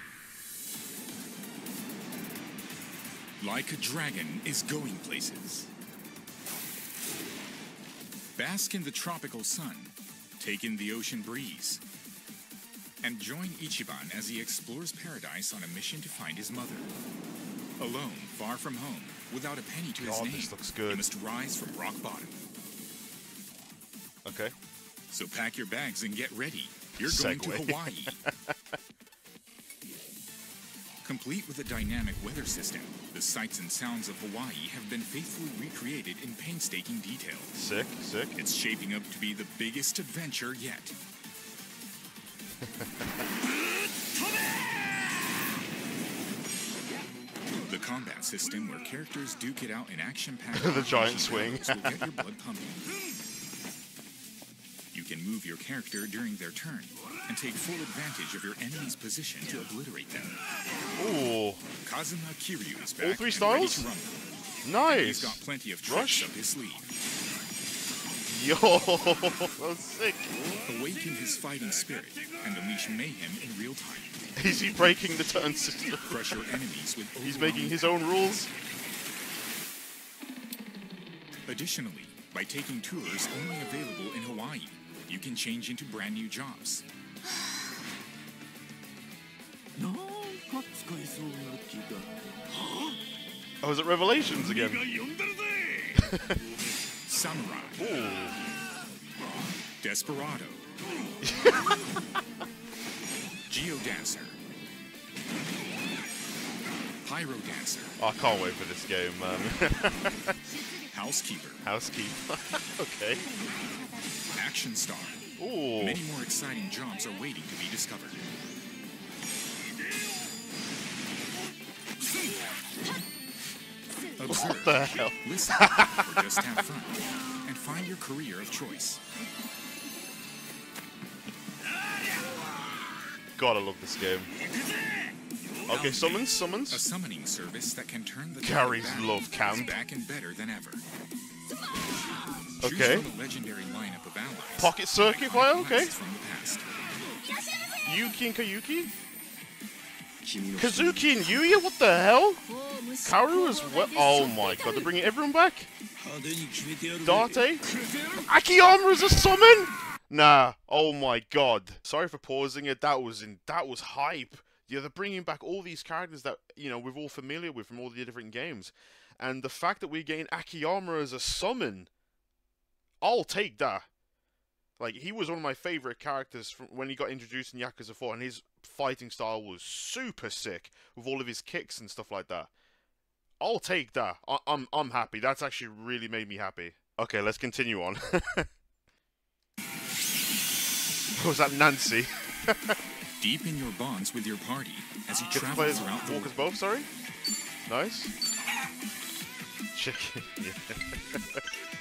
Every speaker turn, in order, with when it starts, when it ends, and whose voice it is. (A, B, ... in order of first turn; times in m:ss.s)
0:03.4-0:05.7 A
0:08.4-0:11.8 A
0:13.0-0:16.9 A
0:17.8-0:22.4 A
0:20.0-0:21.1 B
0:24.2-0:24.5 B
0:25.1-0:28.2 A
0:27.0-0:28.5 B
0:31.0-0:37.6 A
0:37.6-0:38.4 B
0:38.4-0:41.0 A
0:42.6-0:43.1 B
0:44.5-0:45.2 C
0:47.6-0:52.8 A
0:50.6-0:52.1 B
0:54.9-1:00.4 A
1:01.0-1:01.6 B
1:01.8-1:04.2 A
1:03.0-1:03.9 B
1:04.6-1:06.3 B
1:04.9-1:06.9 A
1:08.2-1:10.4 B
1:10.6-1:14.2 A
1:14.4-1:16.2 B
1:16.0-1:18.0 A
1:17.2-1:18.5 B
1:21.5-1:26.8 A
1:29.8-1:33.0 C
1:33.6-1:34.9 B
1:34.9-1:35.9 C
1:35.9-1:36.4 B
1:37.0-1:37.9 A
1:37.8-1:38.4 B
1:39.8-1:40.7 A
1:41.2-1:41.9 B
1:43.5-1:44.4 A
1:47.0-1:48.0 A
1:48.0-1:50.4 B
1:50.9-1:51.6 A
1:51.6-1:53.2 B
1:53.8-1:54.1 C
1:54.3-1:55.2 A
1:55.4-1:56.0 B
1:55.8-1:58.3 A
2:04.1-2:09.0 A
2:04.3-2:06.5 B
2:13.4-2:14.3 B
2:15.6-2:20.8 A
2:15.7-2:16.8 B
2:18.4-2:19.8 B
2:22.6-2:26.7 A
2:22.6-2:23.1 B
2:24.6-2:25.9 B
2:27.2-2:27.8 C
2:27.8-2:28.9 B
2:30.6-2:35.7 B
2:30.6-2:31.0 A
2:32.6-2:33.0 C
2:36.0-2:37.0 C
2:37.0-2:51.9 B
2:37.7-2:38.1 C
2:53.0-2:53.9 B
2:54.8-3:02.5 B
3:03.4-3:08.5 B
3:11.2-3:12.8 B
3:13.2-3:16.3 A
3:15.3-3:16.9 B
3:17.7-3:18.1 B
3:19.8-3:21.4 B